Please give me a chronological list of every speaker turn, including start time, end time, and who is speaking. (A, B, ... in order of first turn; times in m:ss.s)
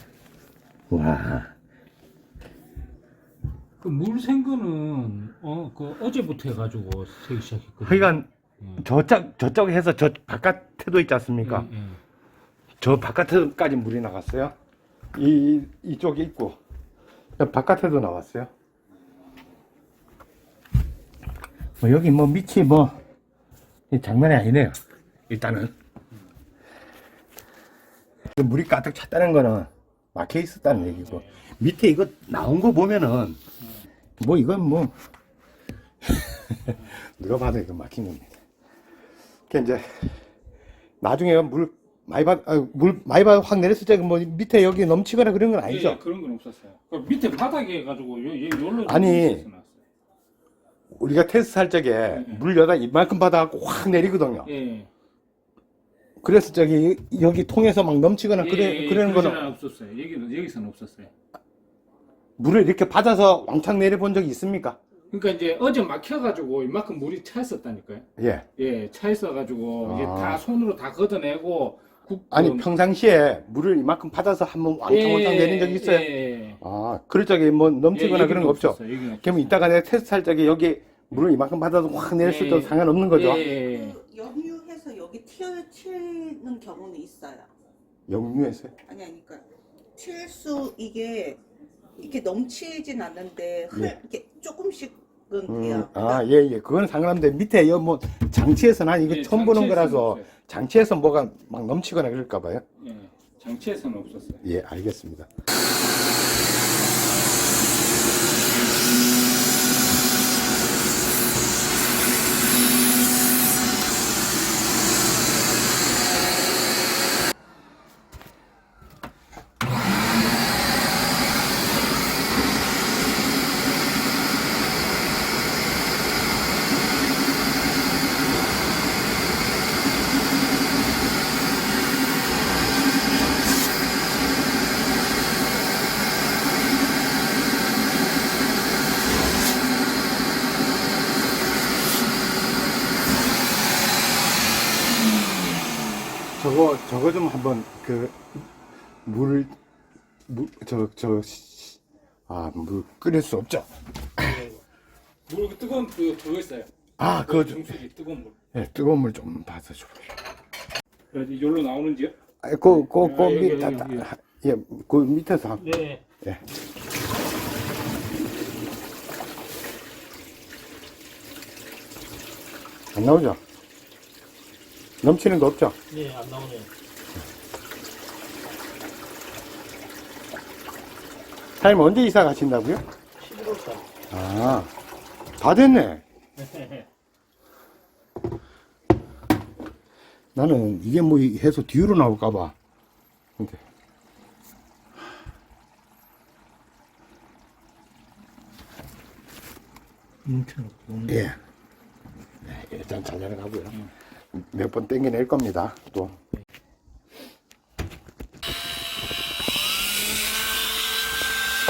0:00.9-0:01.5 A
0:03.8-0:08.8 B
0:07.8-0:11.7 A
0:11.4-0:12.0 B
0:12.8-0:14.5 A
0:15.1-0:16.6 A
0:17.4-0:18.5 A
0:21.8-0:23.0 A
0:23.9-0:24.8 A
0:25.3-0:25.7 A
0:28.3-0:33.4 A
0:30.9-0:31.4 B
0:34.2-0:34.9 A
0:36.1-0:38.3 A
0:39.5-0:40.2 A
0:41.0-0:46.0 A
0:45.6-0:49.8 B
0:48.8-0:49.4 A
0:50.9-0:54.5 A
0:52.1-0:52.4 B
0:54.4-0:54.9 B
0:56.2-0:59.5 A
0:58.4-1:01.1 B
1:02.4-1:04.8 A
1:05.1-1:12.7 B
1:08.2-1:08.5 A
1:09.8-1:10.4 A
1:12.3-1:23.4 A
1:14.9-1:16.6 B
1:17.9-1:19.6 B
1:22.2-1:24.0 B
1:23.5-1:27.5 C
1:28.1-1:28.7 A
1:28.8-1:31.4 C
1:32.0-1:36.2 C
1:35.5-1:42.6 A
1:39.0-1:40.3 B
1:42.8-1:44.4 B
1:44.4-1:45.3 A
2:26.3-2:28.3 A
2:29.0-2:29.5 A
2:30.3-2:34.4 A
2:34.2-2:34.6 B
2:35.3-2:36.7 B
2:37.0-2:37.8 A
2:37.2-2:38.4 B
2:38.5-2:40.2 A
2:41.1-2:44.1 B
2:42.4-2:46.4 A
2:45.6-2:46.0 B
2:52.9-2:53.4 A
2:55.0-2:55.8 A
2:55.9-2:56.7 B
3:01.6-3:02.8 A
3:03.2-3:03.8 B
3:04.1-3:04.7 A
3:05.4-3:06.0 A
3:06.4-3:06.8 B
3:10.3-3:12.5 A
3:20.2-3:21.0 B
3:21.0-3:21.4 A
3:22.4-3:26.2 A